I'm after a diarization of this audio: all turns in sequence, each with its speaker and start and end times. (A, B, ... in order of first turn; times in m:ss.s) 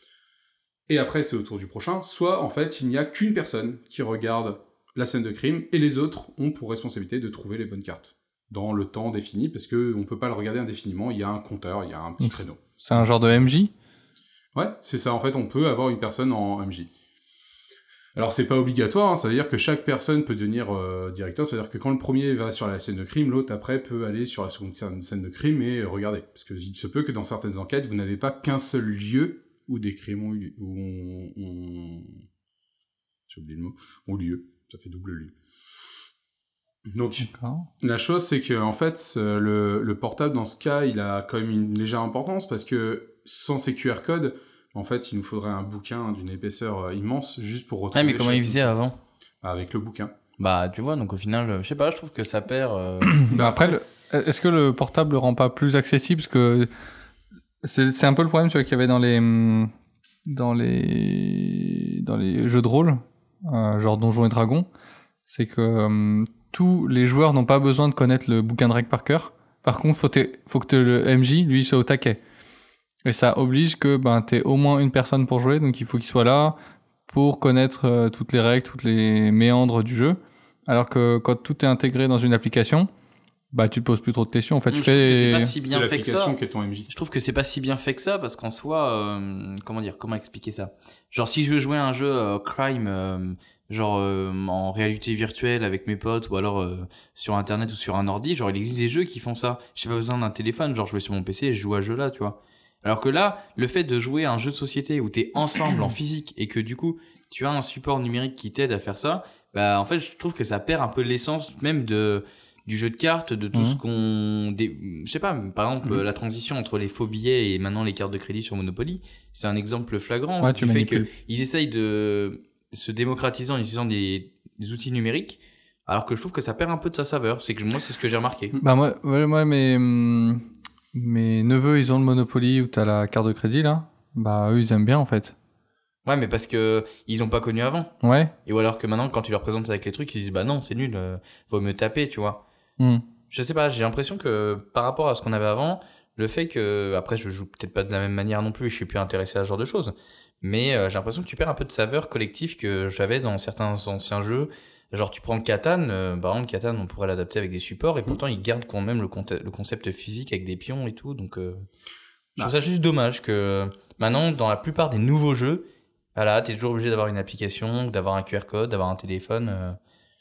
0:00.9-0:13.3 A
0:12.2-0:13.7 B
0:14.6-0:16.9 A
0:18.2-0:32.2 A
0:33.3-0:35.3 A
0:36.9-0:37.3 A
0:37.2-0:37.7 B
0:37.8-0:48.7 A
0:47.9-0:49.0 C
0:49.4-0:50.1 A
0:50.4-0:53.3 C
0:53.1-0:56.7 B
0:53.3-0:54.1 A
0:57.6-0:59.7 B
1:00.3-1:04.7 B
1:05.3-1:12.2 B
1:13.0-1:16.6 B
1:17.1-1:22.9 B
1:23.5-1:25.6 B
1:24.7-1:26.4 C
1:25.6-1:26.9 A
1:26.9-2:08.6 C
1:53.5-1:53.8 B
2:00.4-2:01.1 B
2:08.6-2:10.4 B
2:10.9-2:15.4 B
2:16.0-2:17.9 C
2:18.0-2:18.3 B
2:18.5-2:22.4 C
2:22.8-2:23.0 B
2:23.3-2:41.7 C
2:42.4-2:49.8 C